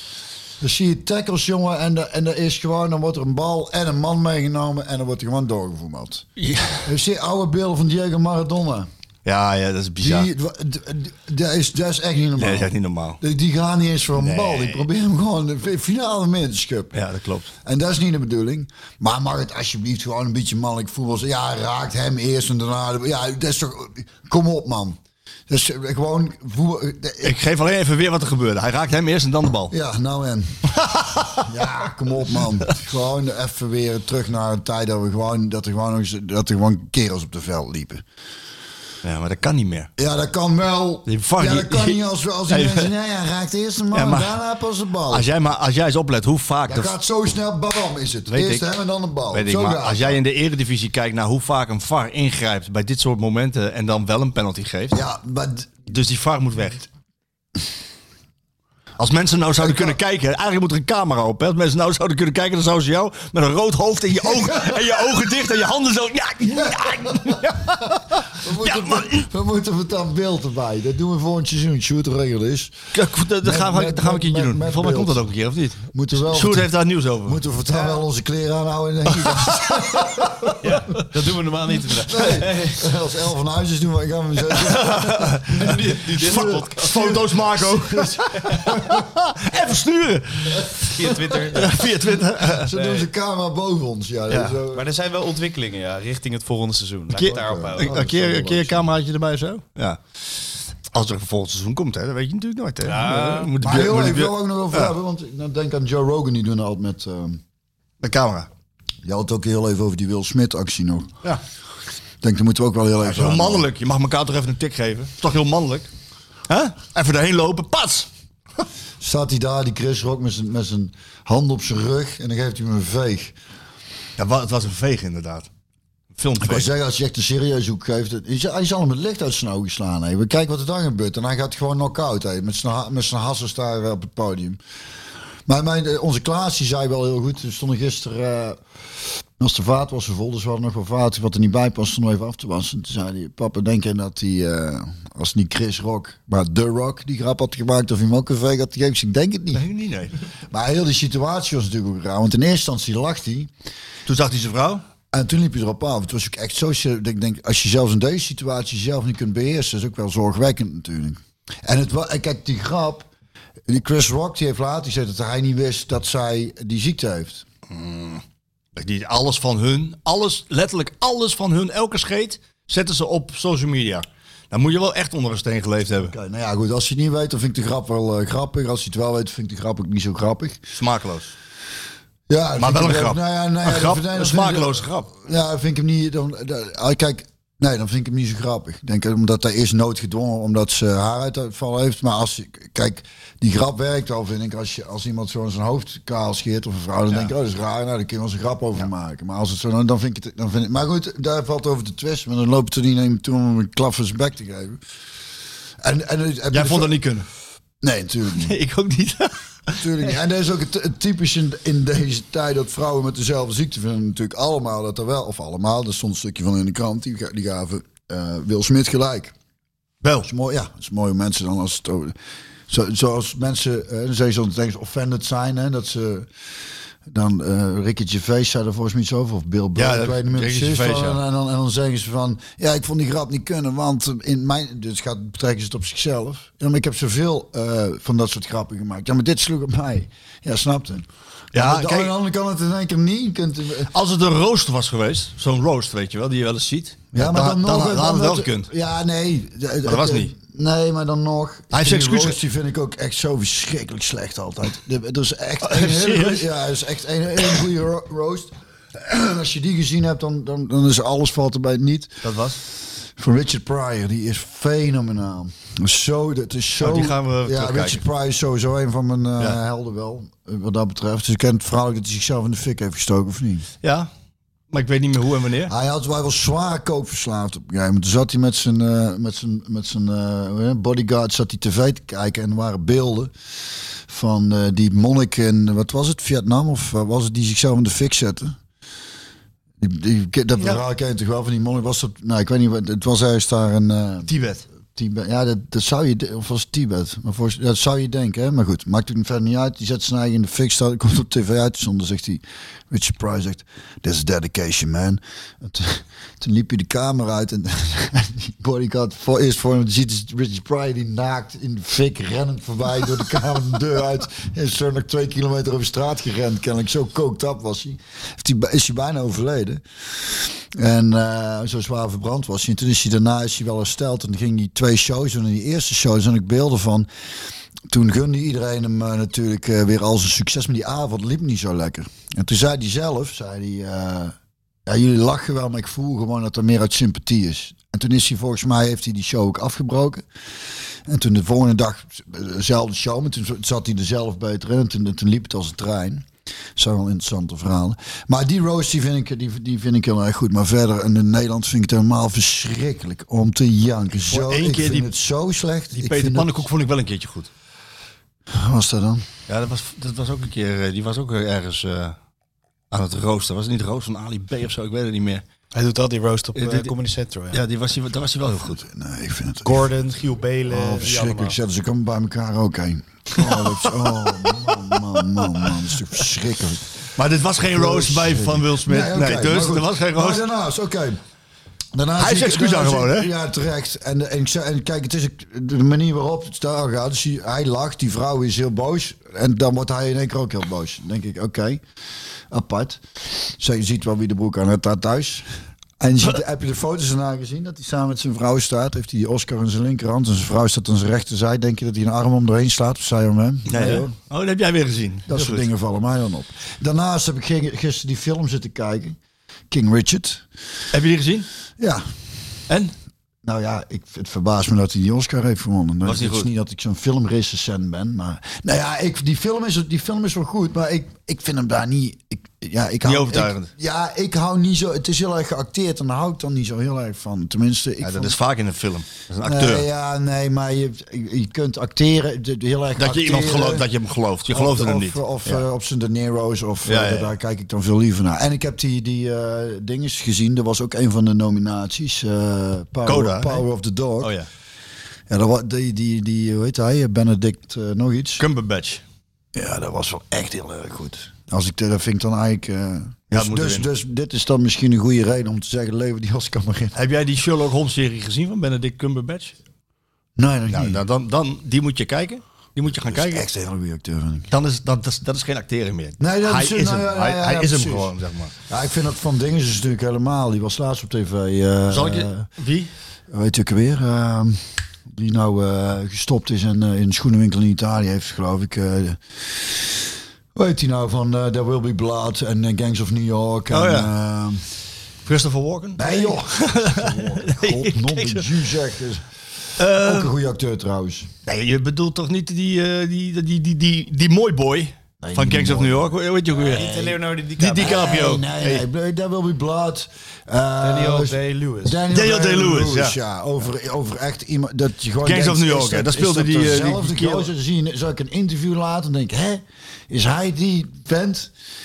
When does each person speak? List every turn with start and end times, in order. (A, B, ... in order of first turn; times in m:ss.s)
0:00.6-0:06.3 A
0:06.4-0:06.9 B
0:06.8-0:08.9 A
0:09.2-0:10.3 B
0:10.0-0:17.0 A
0:12.4-0:13.2 B
0:14.2-0:14.9 B
0:16.9-0:17.5 B
0:17.6-0:27.4 A
0:27.2-0:29.7 B
0:29.7-0:30.7 A
0:30.7-0:31.4 B
0:31.4-0:38.0 A
0:39.0-0:39.9 B
0:40.0-0:45.3 A
0:41.1-0:42.9 B
0:43.9-0:44.4 B
0:45.1-0:46.9 B
0:46.7-0:50.2 A
0:48.3-0:48.6 B
0:49.3-0:55.0 B
0:54.9-0:55.8 A
0:55.9-0:56.9 B
0:59.0-1:09.3 B
0:59.6-1:00.0 A
1:07.0-1:07.4 A
1:08.3-1:12.8 A
1:12.9-1:17.4 B
1:13.4-1:15.2 A
1:15.9-1:16.7 A
1:17.2-1:20.8 A
1:17.7-1:18.0 C
1:19.2-1:19.9 B
1:20.6-1:22.8 C
1:22.0-1:29.0 A
1:24.7-1:32.7 B
1:25.5-1:27.3 C
1:28.3-1:28.7 C
1:30.9-1:31.7 C
1:32.6-1:34.9 A
1:32.7-1:33.0 C
1:34.3-1:34.6 B
1:34.7-1:38.7 C
1:37.1-1:40.0 B
1:37.2-1:38.8 A
1:40.9-1:44.9 B
1:42.8-1:43.5 C
1:43.6-1:47.4 A
1:48.0-1:48.5 B
1:49.0-1:51.1 A
1:52.2-1:53.7 A
1:53.0-1:55.9 B
1:56.5-1:58.1 B
1:59.0-2:03.4 A
2:04.2-2:05.5 B
2:06.2-2:06.7 B
2:06.4-2:14.6 A
2:15.5-2:18.6 A
2:19.4-2:29.6 A
2:29.5-2:30.1 B
2:30.5-2:33.5 A
2:34.1-2:34.8 B
2:35.1-2:43.1 A
2:43.7-2:47.4 A
2:47.7-2:48.2 B
2:48.8-2:56.1 B
2:56.0-3:00.6 A
3:00.7-3:01.3 B
3:02.3-3:24.8 A
3:02.6-3:05.1 B
3:25.8-3:27.0 A
3:26.5-3:27.2 B
3:27.8-3:28.6 A
3:28.4-3:30.1 B
3:29.8-3:39.3 A
3:40.0-3:40.3 B
3:40.2-3:42.1 A
3:42.7-3:46.3 A
3:47.1-4:03.9 A
3:49.8-3:51.2 B
4:01.5-4:02.1 B
4:03.9-4:08.7 B
4:07.1-4:22.2 A
4:09.8-4:10.3 B
4:11.7-4:12.4 B
4:15.6-4:16.4 B
4:22.2-4:22.6 B
4:23.2-4:33.7 A
4:26.8-4:28.0 B
4:33.8-4:34.1 B
4:34.7-4:35.7 B
4:35.7-4:43.3 A
4:44.1-4:48.6 A
4:49.8-4:54.3 A
4:54.2-4:54.6 B
4:54.9-5:27.1 A
5:27.9-5:34.3 A
5:34.8-5:40.2 A
5:41.0-5:56.6 A
5:54.2-5:55.1 B
5:55.9-5:57.5 B
5:58.5-5:59.2 A
5:59.5-6:02.2 B
6:02.9-6:05.4 B
6:05.7-6:07.6 C
6:06.5-6:06.9 B
6:07.5-6:08.8 B
6:08.7-6:09.8 A
6:09.6-6:11.6 C
6:10.7-6:17.0 A
6:13.4-6:15.7 B
6:17.1-6:20.4 B
6:17.7-6:21.2 A
6:21.9-6:31.8 A
6:22.2-6:23.3 B
6:32.5-6:35.5 A
6:36.0-6:44.1 A
6:43.7-6:45.7 B
6:45.3-6:49.2 A
6:49.7-6:50.4 A
6:50.9-6:51.5 B
6:51.8-6:52.0 A
6:53.4-7:08.4 A
6:56.0-6:56.5 B
7:03.0-7:03.7 B
7:08.0-7:09.8 B
7:09.4-7:13.9 A
7:13.0-7:15.6 B
7:14.5-7:24.3 A
7:16.8-7:17.3 B
7:23.0-7:23.6 B
7:24.2-7:24.5 B
7:25.3-7:28.4 A
7:28.4-7:29.0 B
7:29.5-7:36.9 A
7:33.3-7:33.9 B
7:36.9-7:39.5 B
7:40.4-7:41.0 A
7:40.7-7:43.5 B
7:43.0-7:44.5 A
7:44.5-7:48.5 B
7:46.2-7:48.1 A
7:48.7-7:52.4 A
7:51.9-7:52.9 B
7:53.3-8:00.0 A
8:00.5-8:04.6 A
8:03.7-8:04.1 B
8:05.2-8:08.5 B
8:06.0-8:09.2 A
8:09.8-8:10.3 B
8:09.8-8:11.3 A
8:11.4-8:18.8 B
8:15.2-8:16.2 A
8:16.6-8:18.2 C
8:16.7-8:17.2 A
8:17.7-8:31.5 A
8:20.8-8:22.0 C
8:22.1-8:23.2 B
8:25.2-8:27.5 B